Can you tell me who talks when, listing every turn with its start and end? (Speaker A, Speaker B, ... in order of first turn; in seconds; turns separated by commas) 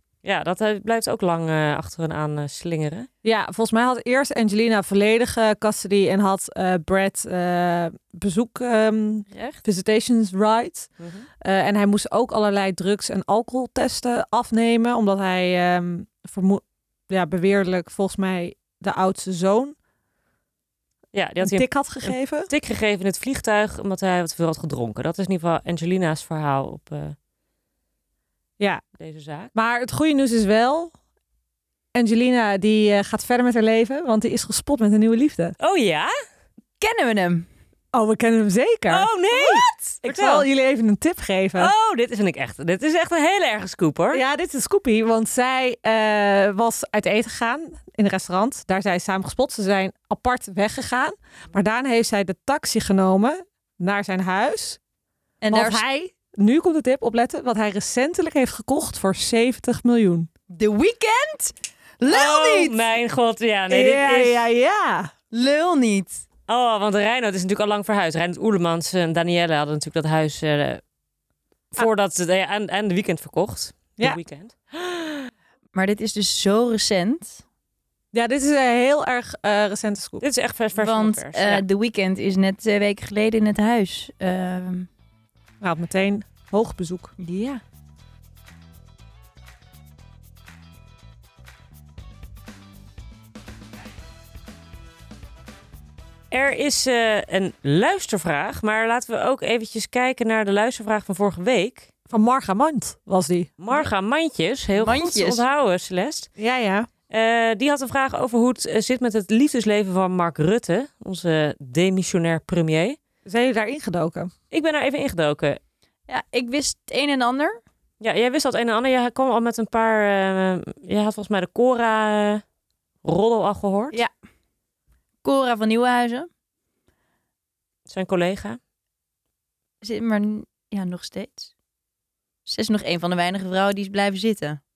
Speaker A: 0.2-3.1, Speaker B: 3.2-10.9, Speaker C: 9.3-9.6, Speaker A: 11.0-11.2, Speaker B: 11.4-19.8, Speaker A: 21.1-27.1, Speaker B: 21.4-22.5, Speaker A: 29.0-29.5, Speaker B: 29.5-30.9, Speaker B: 31.9-35.5, Speaker A: 35.6-36.1, Speaker C: 36.8-37.5, Speaker B: 37.9-39.1, Speaker A: 38.9-40.5, Speaker C: 39.3-39.8, Speaker B: 40.0-41.7, Speaker A: 41.6-44.2, Speaker B: 44.1-54.8, Speaker C: 55.4-55.8, Speaker B: 55.5-60.3, Speaker C: 60.5-62.8, Speaker A: 62.0-64.4, Speaker B: 63.7-65.1, Speaker C: 65.3-66.2, Speaker A: 66.5-70.8, Speaker A: 71.7-74.5, Speaker B: 74.7-75.3, Speaker C: 75.7-77.4, Speaker B: 78.1-80.2, Speaker A: 80.2-81.6, Speaker C: 80.8-84.9, Speaker B: 85.6-87.1, Speaker C: 87.2-87.6, Speaker A: 96.3-101.9, Speaker B: 102.1-103.8, Speaker A: 103.6-106.3, Speaker C: 104.8-105.4, Speaker B: 106.4-106.9, Speaker A: 107.1-113.0, Speaker B: 113.2-114.3, Speaker A: 114.5-115.6, Speaker C: 116.1-117.6, Speaker A: 118.0-122.4, Speaker A: 123.0-124.0, Speaker C: 125.2-126.3, Speaker A: 127.9-128.6, Speaker C: 129.8-131.5, Speaker C: 132.4-134.6